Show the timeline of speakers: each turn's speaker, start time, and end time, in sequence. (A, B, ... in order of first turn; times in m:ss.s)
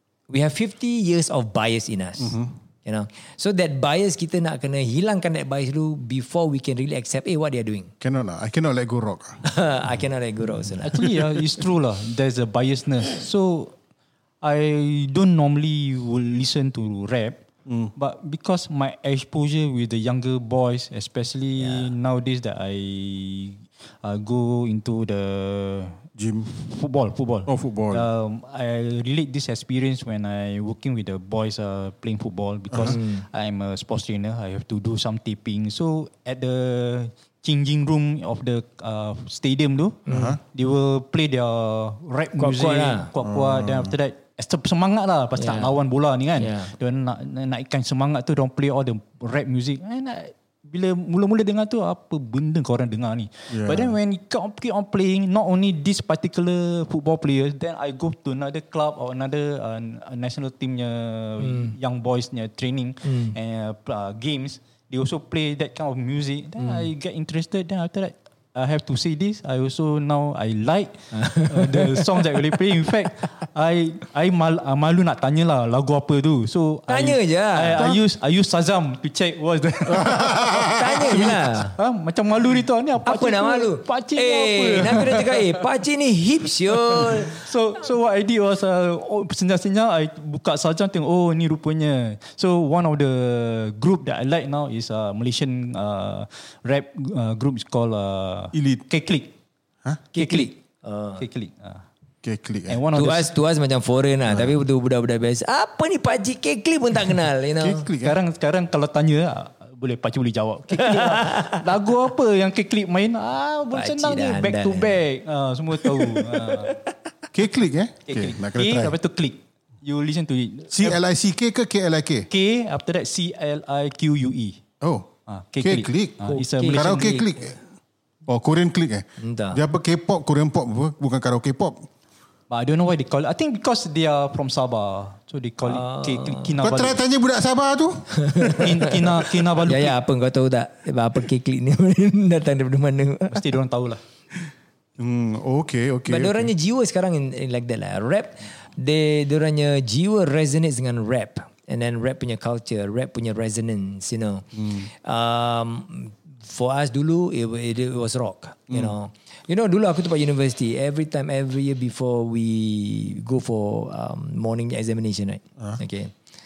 0:00.3-0:07.9 A
0:02.2-0:02.5 B
0:08.0-0:09.4 B
0:09.4-0:11.1 A
0:10.8-0:13.7 C
0:11.0-0:11.6 B
0:14.4-0:17.4 C
0:17.7-0:17.9 B
0:18.0-1:25.6 C
0:21.6-0:21.9 A
0:26.2-0:26.5 B
0:27.4-0:28.1 B
0:32.7-0:33.0 B
0:32.9-0:33.2 A
0:40.1-0:40.4 A
0:40.1-0:40.4 B
0:42.4-0:43.1 A
0:43.2-0:43.9 B
0:45.4-0:45.7 A
0:46.4-0:46.7 A
0:53.5-0:53.9 B
1:01.4-1:01.7 A
1:03.0-1:03.3 A
1:06.6-1:06.9 A
1:11.1-1:12.3 A
1:16.9-1:18.0 A
1:19.9-1:21.4 B
1:20.6-1:21.8 A
1:23.0-1:27.4 A
1:26.9-1:39.3 C
1:38.5-1:38.8 B
1:40.1-1:41.2 A
1:40.2-1:40.5 C
1:41.2-1:41.8 C
1:42.2-1:42.8 B
1:42.7-1:43.3 C
1:42.9-1:47.9 A
1:44.3-1:44.6 B
1:47.6-1:48.2 B
1:48.0-1:56.8 C
1:50.7-1:51.6 A
1:53.7-1:55.0 A
1:57.3-1:58.9 B
1:58.1-2:01.0 C
2:00.7-2:02.3 B
2:02.3-2:04.6 C
2:04.8-2:07.6 B
2:05.3-2:07.2 C
2:06.3-2:07.5 A
2:08.2-2:11.9 B
2:09.2-2:09.6 A
2:12.5-2:17.0 C
2:15.6-2:16.5 A
2:16.6-2:18.7 B
2:18.1-2:23.4 A
2:18.5-2:19.9 C
2:23.3-2:24.0 C
2:25.0-2:26.5 B
2:26.1-2:46.1 A
2:34.5-2:34.9 B